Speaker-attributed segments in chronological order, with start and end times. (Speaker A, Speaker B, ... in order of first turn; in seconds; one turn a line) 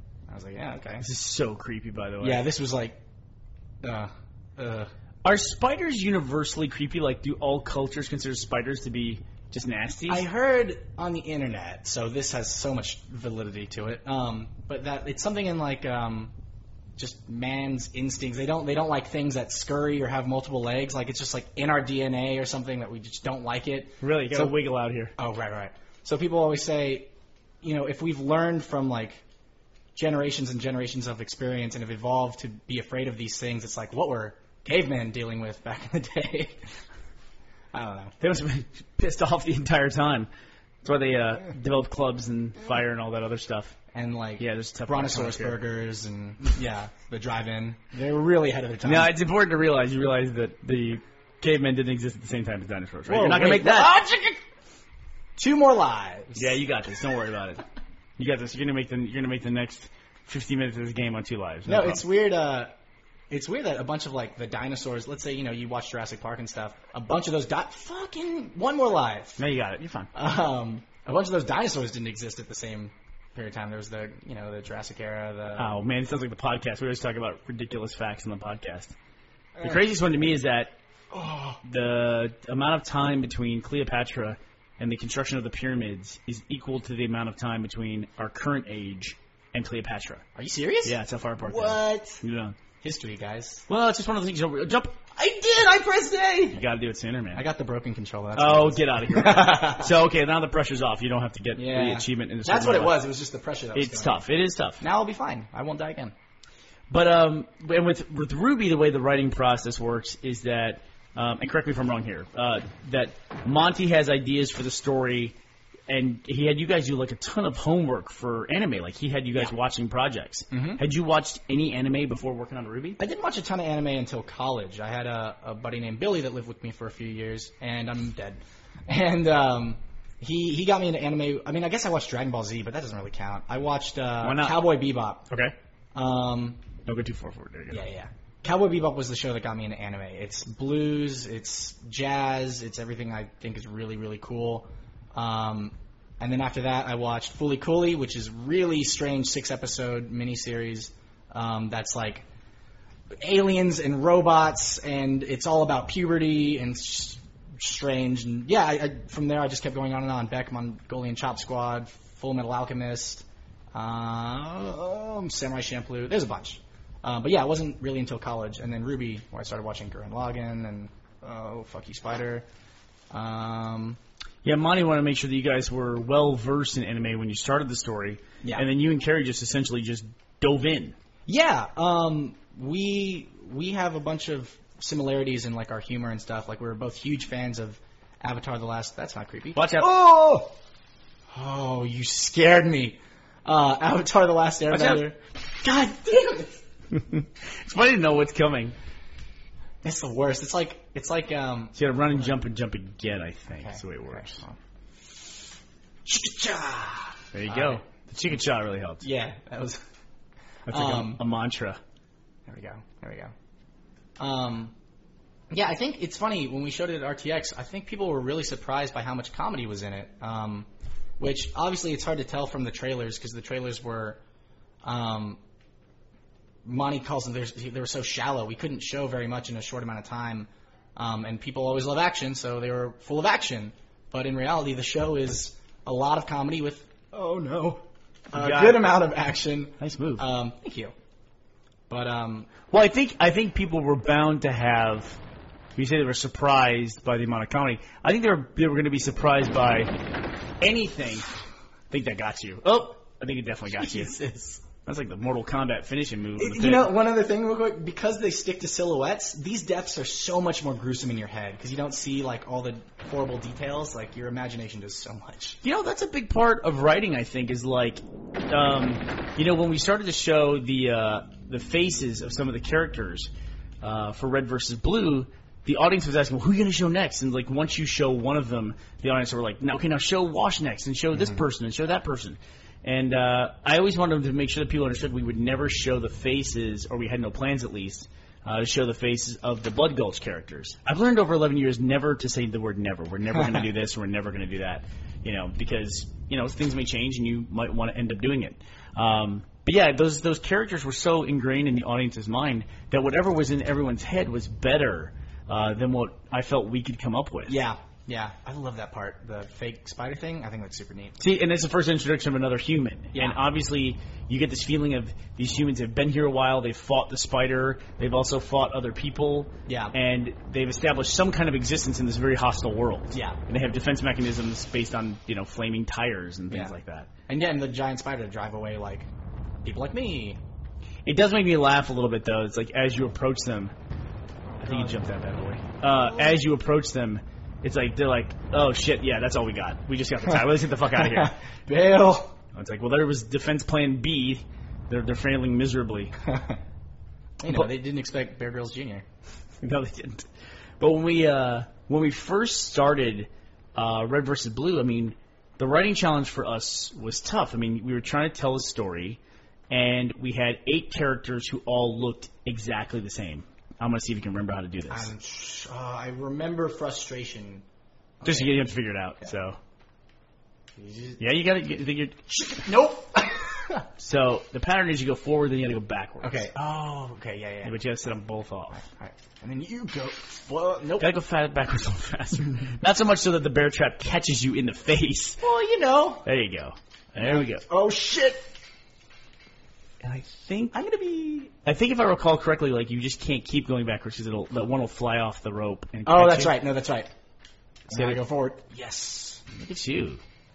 Speaker A: 0.3-1.1
Speaker B: 1.0-2.5
Speaker A: 2.2-3.0
Speaker A: 3.8-4.9
Speaker B: 5.2-10.2
Speaker A: 10.1-16.3
Speaker A: 17.0-24.6
Speaker B: 24.0-25.1
Speaker A: 25.2-27.1
Speaker A: 27.6-29.2
Speaker A: 29.9-36.7
Speaker A: 37.7-38.1
Speaker B: 38.2-40.3
Speaker B: 40.8-43.8
Speaker A: 43.9-49.1
Speaker B: 44.4-45.6
Speaker B: 48.8-54.0
Speaker A: 53.1-54.4
Speaker A: 55.4-56.6
Speaker B: 56.4-57.6
Speaker B: 58.2-62.0
Speaker A: 61.7-62.7
Speaker A: 63.3-69.4
Speaker B: 69.4-70.1
Speaker A: 70.1-75.8
Speaker B: 75.6-79.0
Speaker A: 79.6-79.8
Speaker B: 79.6-80.8
Speaker A: 81.1-81.6
Speaker B: 81.6-90.2
Speaker A: 90.3-92.2
Speaker B: 90.8-92.6
Speaker A: 92.8-93.7
Speaker B: 93.7-95.0
Speaker A: 95.2-96.6
Speaker B: 96.5-97.5
Speaker A: 97.3-100.0
Speaker B: 98.4-103.0
Speaker A: 101.5-104.2
Speaker B: 103.8-104.8
Speaker A: 104.8-106.1
Speaker B: 106.9-115.4
Speaker B: 115.9-123.0
Speaker A: 120.5-120.8
Speaker A: 123.0-135.3
Speaker B: 134.2-134.7
Speaker A: 135.9-136.6
Speaker B: 136.9-137.8
Speaker A: 137.7-152.3
Speaker A: 153.2-172.5
Speaker A: 173.1-174.0
Speaker B: 174.4-181.0
Speaker A: 181.3-190.5
Speaker B: 189.6-189.9
Speaker A: 191.3-196.6
Speaker B: 194.7-195.1
Speaker B: 196.9-198.8
Speaker A: 199.8-202.3
Speaker B: 201.8-204.4
Speaker A: 203.6-204.6
Speaker A: 206.1-207.8
Speaker B: 207.3-209.1
Speaker A: 209.0-209.8
Speaker B: 210.7-211.8
Speaker A: 210.7-211.2
Speaker A: 212.5-213.3
Speaker A: 214.2-214.7
Speaker A: 215.5-220.7
Speaker A: 221.2-224.2
Speaker A: 224.8-225.4
Speaker A: 226.7-240.9
Speaker B: 238.3-238.9
Speaker B: 239.8-240.2
Speaker A: 241.9-242.5
Speaker B: 242.7-245.2
Speaker B: 245.8-249.9
Speaker B: 250.6-251.3
Speaker B: 251.9-254.2
Speaker A: 253.7-254.7
Speaker B: 254.8-256.9
Speaker A: 256.4-265.6
Speaker B: 265.6-273.3
Speaker B: 273.8-307.6
Speaker A: 281.1-281.4
Speaker A: 293.4-293.6
Speaker A: 307.5-311.2
Speaker B: 311.2-327.1
Speaker A: 313.1-313.4
Speaker A: 319.7-319.9
Speaker A: 323.1-323.4
Speaker A: 327.3-329.1
Speaker A: 329.6-330.4
Speaker B: 331.1-333.7
Speaker B: 334.6-341.4
Speaker A: 334.6-335.0
Speaker A: 336.0-336.4
Speaker A: 340.9-342.3
Speaker B: 342.5-346.1
Speaker A: 346.2-346.6
Speaker A: 347.4-349.1
Speaker B: 349.6-350.3
Speaker B: 350.8-365.1
Speaker A: 364.9-367.6
Speaker A: 368.2-368.6
Speaker B: 368.2-369.6
Speaker A: 370.8-371.2
Speaker B: 371.2-372.3
Speaker A: 372.3-373.9
Speaker B: 374.0-376.5
Speaker A: 376.2-377.8
Speaker B: 377.6-378.8
Speaker A: 378.8-381.1
Speaker B: 381.0-385.4
Speaker A: 385.4-386.2
Speaker B: 386.2-387.7
Speaker A: 387.2-388.5
Speaker B: 390.0-390.8
Speaker A: 390.7-391.5
Speaker B: 391.6-396.6
Speaker A: 396.1-397.1
Speaker A: 397.9-399.4
Speaker B: 397.9-398.2
Speaker B: 399.5-400.2